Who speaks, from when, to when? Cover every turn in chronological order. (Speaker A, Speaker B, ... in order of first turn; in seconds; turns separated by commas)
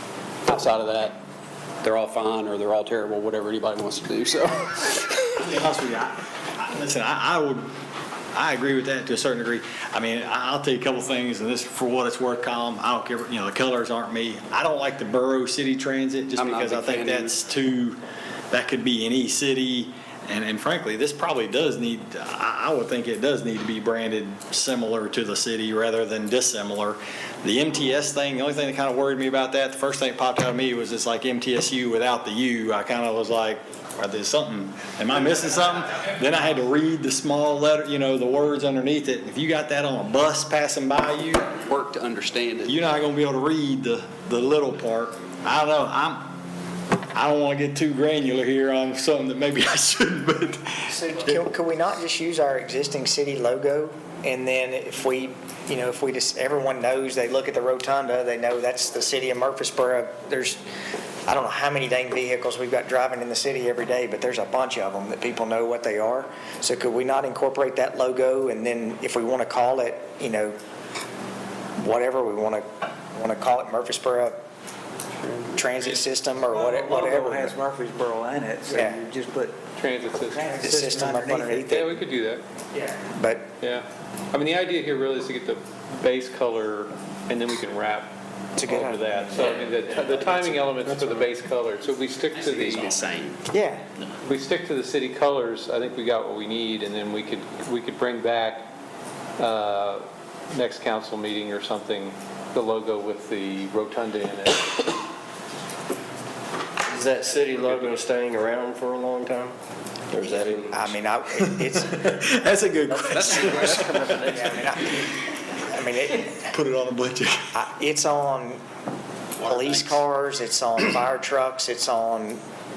Speaker A: 0.5-1.2, Speaker A: 1.8-5.4, Speaker B: 5.4-7.7, Speaker B: 8.3-18.0, Speaker A: 16.4-17.4, Speaker B: 18.5-41.5, Speaker A: 41.7-42.7, Speaker B: 42.6-46.3, Speaker B: 47.1-50.8, Speaker C: 50.9-60.6, Speaker C: 61.3-70.6, Speaker C: 71.8-74.4, Speaker C: 75.5-77.6, Speaker D: 76.5-79.5, Speaker C: 78.7-79.0, Speaker E: 79.8-80.7, Speaker D: 80.3-81.5, Speaker C: 80.6-82.0, Speaker E: 81.7-82.4, Speaker C: 83.1-83.5, Speaker E: 83.6-88.1, Speaker C: 88.6-89.6, Speaker E: 88.7-92.9, Speaker C: 90.2-90.7, Speaker A: 92.3-93.5, Speaker C: 93.5-93.8, Speaker E: 94.2-98.7, Speaker E: 99.4-104.8, Speaker F: 106.9-109.6, Speaker E: 107.6-107.9, Speaker F: 110.1-111.0, Speaker C: 110.7-112.2, Speaker B: 111.8-114.5, Speaker C: 113.0-116.5, Speaker B: 116.5-117.5, Speaker C: 117.5-118.6, Speaker C: 119.4-122.4